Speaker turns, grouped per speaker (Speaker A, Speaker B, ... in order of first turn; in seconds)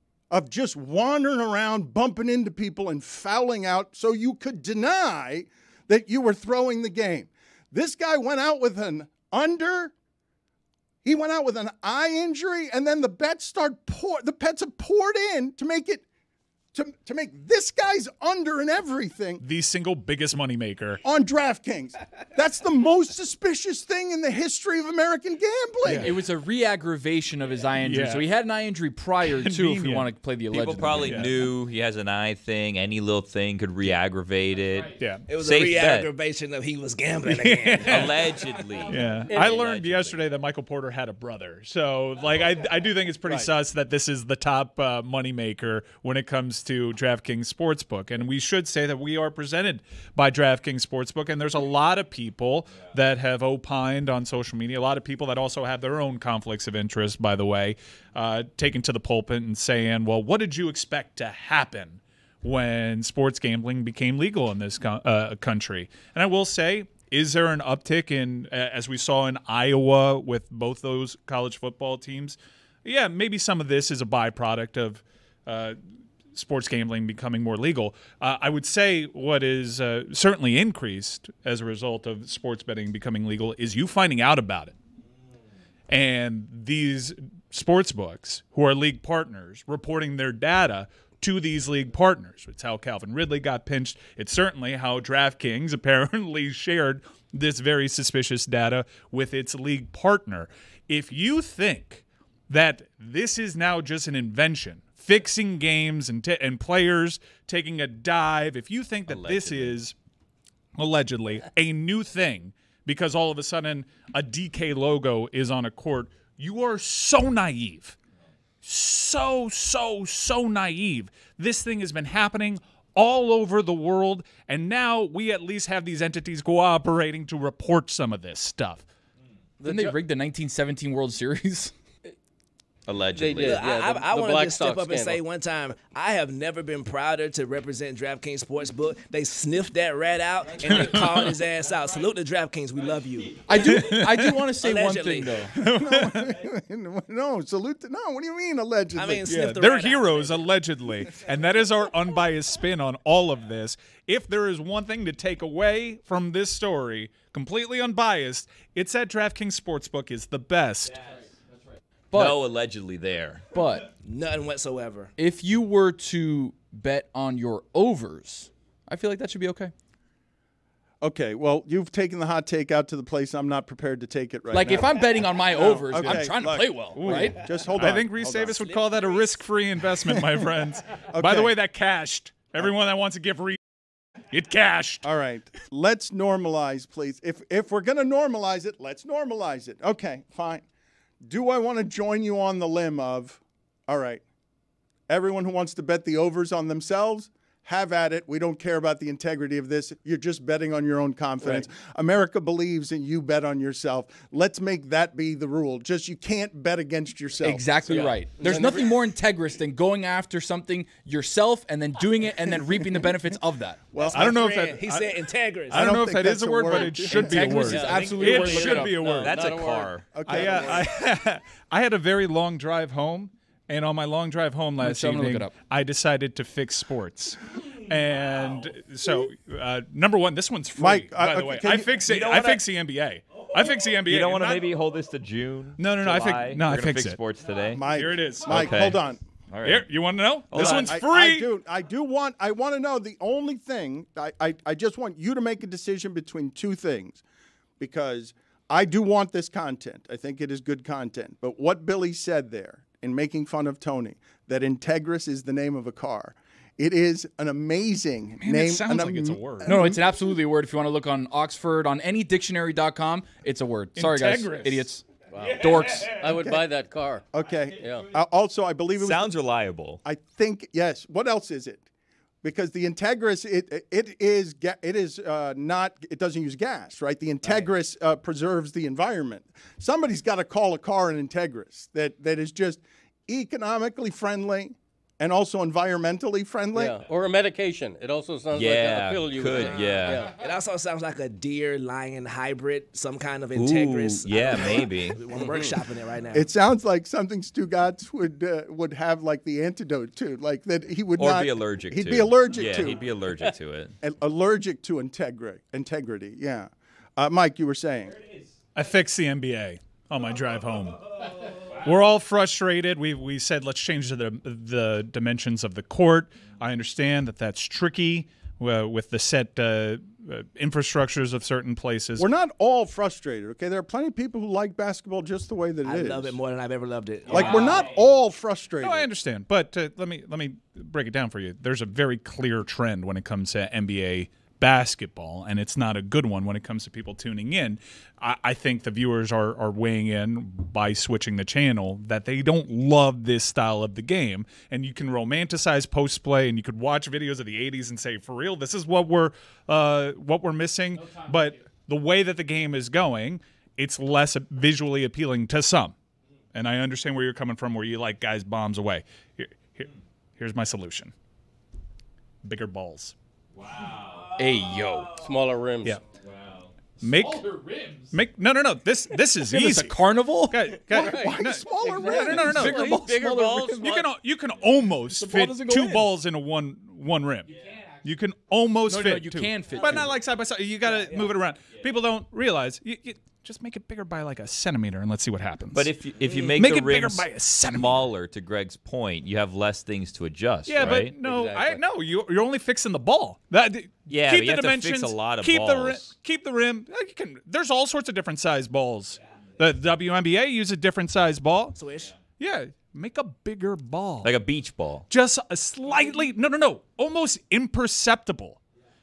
Speaker A: 0.3-9.9, 11.0-16.1, 16.7-19.4, 21.0-26.1, 145.6-149.3, 171.0-178.6, 180.0-180.5, 181.1-181.5, 185.0-190.7, 191.2-194.2, 195.1-208.0, 212.4-213.3, 213.9-214.4, 215.7-217.6, 220.2-220.9, 230.8-231.9, 237.7-239.2, 240.5-247.2, 247.8-260.0, 267.3-269.4, 270.0-271.9, 272.4-287.0, 296.3-303.0, 304.0-308.2, 322.2-326.4, 327.3-329.1, 370.9-373.0
Speaker B: 19.4-21.0, 27.8-28.3, 29.3-30.1, 30.9-31.3, 35.0-35.2, 37.2-38.2, 38.9-75.8, 76.3-84.8, 85.9-110.0, 110.8-118.0, 118.6-128.9, 140.6-141.3, 143.6-144.4, 145.6-146.3, 149.3-161.0, 175.9-183.6, 184.3-185.1, 214.1-215.1, 215.7-219.5, 220.2-234.8, 235.8-237.2, 237.9-239.0, 239.6-241.5, 258.4-259.9, 264.0-264.8, 308.8-311.0, 311.8-322.3, 328.8-355.9, 356.5-361.1, 362.4-363.1, 367.0-367.5, 368.1-377.5, 378.0-385.9, 386.6-388.0, 390.7-401.8, 402.4-404.3, 405.1-408.6
Speaker C: 25.8-31.4, 129.7-131.7, 143.4-145.5, 162.1-162.4, 163.5-163.9, 165.2-169.7, 174.5-177.4, 207.4-213.9, 217.1-218.9, 224.8-225.6, 259.6-265.1, 265.6-266.4, 364.4-365.1, 367.0-368.2, 369.4-370.8, 372.6-373.9, 375.1-376.1, 378.9-380.2
Speaker D: 30.5-36.1, 37.9-40.2, 109.1-109.8, 132.9-133.6, 162.1-163.5, 217.8-220.2, 232.1-232.6, 234.0-237.8, 238.5-239.9, 240.5-241.0, 269.0-270.0, 288.5-290.3, 293.6-295.2, 301.2-303.9, 363.7-364.3, 366.4-366.7, 385.8-391.1, 394.1-396.1, 404.2-405.1
Speaker E: 35.3-38.2, 133.4-143.8, 144.6-145.5, 148.9-150.6, 164.0-165.1, 178.4-179.5, 214.0-216.0, 289.6-296.5, 325.9-327.9, 386.3-386.6, 401.8-402.1
Speaker F: 39.3-39.6, 129.6-130.0, 133.2-135.2, 207.9-208.9, 217.5-219.9, 265.3-267.2, 267.8-268.1, 286.7-290.3, 295.3-295.7, 365.1-366.0, 370.9-371.3, 371.9-374.1, 391.2-391.8